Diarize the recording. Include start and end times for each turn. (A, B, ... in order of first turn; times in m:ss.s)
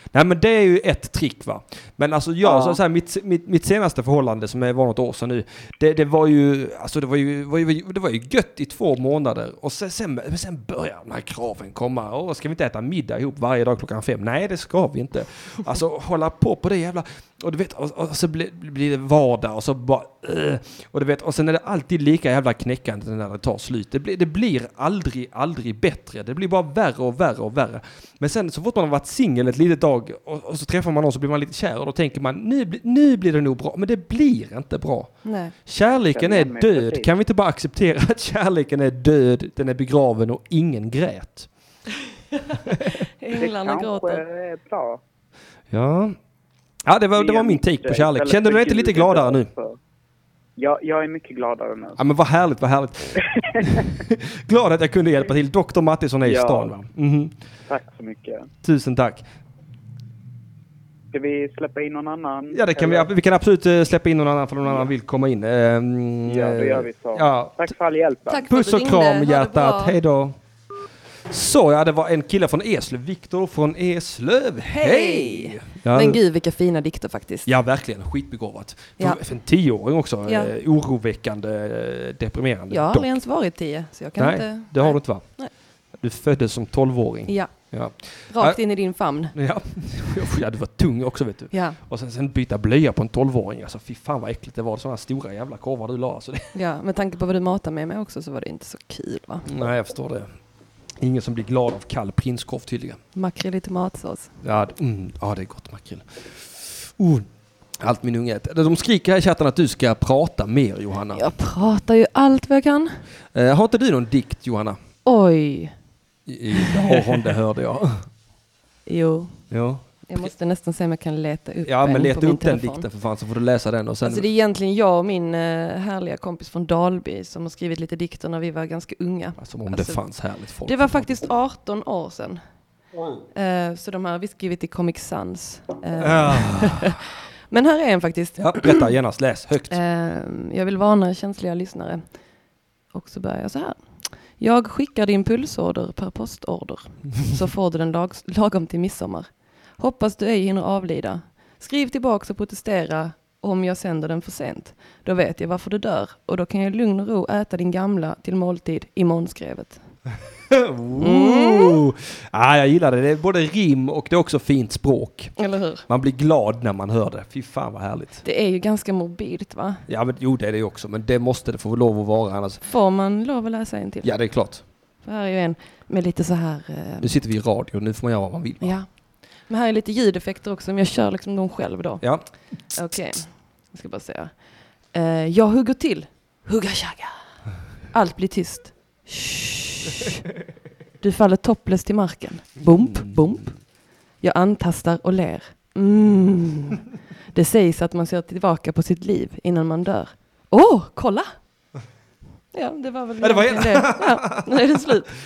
0:00.1-0:35.1 A
0:02.4-0:02.8 B
0:35.2-0:35.5 C
0:35.6-0:41.5 A
0:36.1-0:37.1 B
0:43.2-0:44.2 C
0:43.3-0:45.0 B
0:45.7-0:46.2 A
0:46.8-0:49.5 A
0:47.1-0:49.8 B
0:50.6-0:52.0 B
0:52.0-0:57.3 A
0:53.2-0:53.8 B
0:56.2-0:56.7 B
0:57.7-0:58.5 B
0:58.6-0:59.2 A
1:01.1-1:03.1 B
1:02.5-1:07.6 A
1:04.6-1:04.9 B
1:06.2-1:08.4 B
1:08.3-1:10.0 C
1:08.5-1:10.4 A
1:11.3-1:16.2 A
1:14.6-1:17.5 C
1:17.4-1:23.2 A
1:20.2-1:20.5 C
1:22.7-1:25.5 C
1:24.2-1:25.3 A
1:26.0-1:28.6 A
1:27.3-1:27.5 C
1:28.3-1:29.3 C
1:29.3-1:36.5 A
1:31.5-1:31.8 C
1:36.5-1:39.5 C
1:39.4-1:40.3 A
1:41.0-1:43.0 A
1:43.1-1:44.3 C
1:44.4-1:47.3 A
1:47.8-1:51.2 A
1:51.1-1:53.0 C
1:53.3-1:54.8 A
1:55.0-1:55.7 C
1:56.3-1:58.0 A
1:56.5-1:57.2 C
1:58.8-1:59.4 C
1:59.5-2:00.3 A
2:00.1-2:02.8 C
2:01.6-2:04.2 A
2:04.0-2:10.0 C
2:09.4-2:11.2 A
2:10.6-2:12.4 C
2:13.3-2:18.9 C
2:16.0-2:16.9 A
2:18.4-2:19.8 A
2:19.7-2:22.0 C
2:22.9-2:23.8 C
2:24.4-2:39.8 C
2:40.5-2:45.3 A
2:41.0-2:41.8 C
2:45.4-2:45.8 C
2:45.9-2:48.2 A
2:48.2-2:49.8 C
2:49.9-2:52.6 A
2:52.7-2:54.2 C
2:54.0-2:54.6 A
2:55.0-2:57.1 C
2:57.0-2:58.7 A
2:58.6-3:02.1 C
3:02.0-3:02.2 A
3:02.7-3:04.4 C
3:04.9-3:07.2 C
3:07.9-3:10.2 C
3:11.0-3:13.6 C
3:12.8-3:13.2 A
3:14.2-3:16.8 C
3:17.3-3:21.3 C
3:22.5-3:25.1 C
3:23.2-3:24.8 A